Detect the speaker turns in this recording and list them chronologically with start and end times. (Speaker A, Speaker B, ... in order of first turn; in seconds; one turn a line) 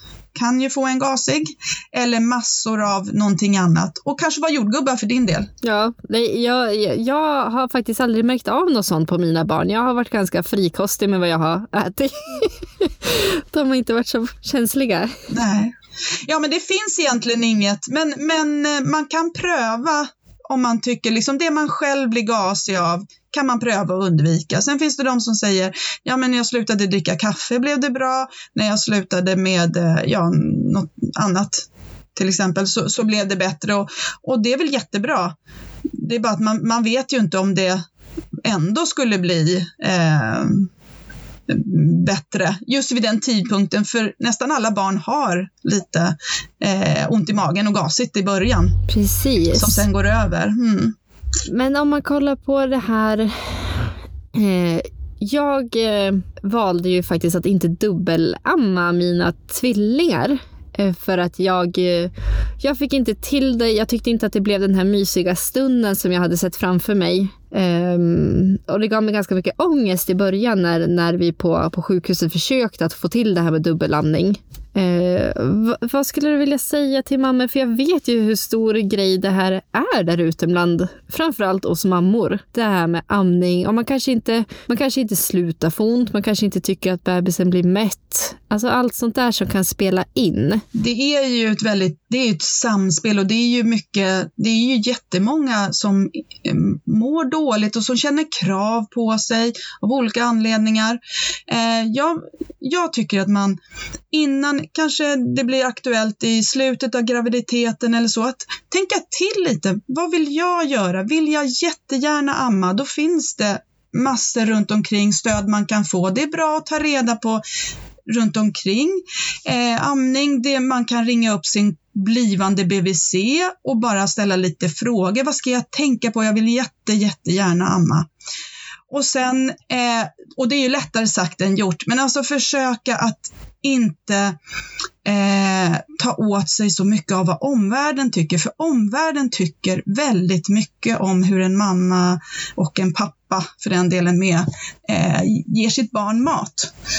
Speaker A: 0.3-5.5
Speaker B: 5.6-15.2
Speaker A: 15.3-35.4
Speaker A: 36.0-37.8
Speaker A: 38.4-40.7
Speaker A: 41.5-48.8
Speaker B: 48.9-49.8
Speaker A: 49.5-51.0
Speaker B: 51.5-90.6
Speaker A: 90.7-103.6
Speaker A: 104.1-117.4
Speaker A: 118.1-128.1
Speaker A: 128.9-134.3
Speaker A: 135.0-146.7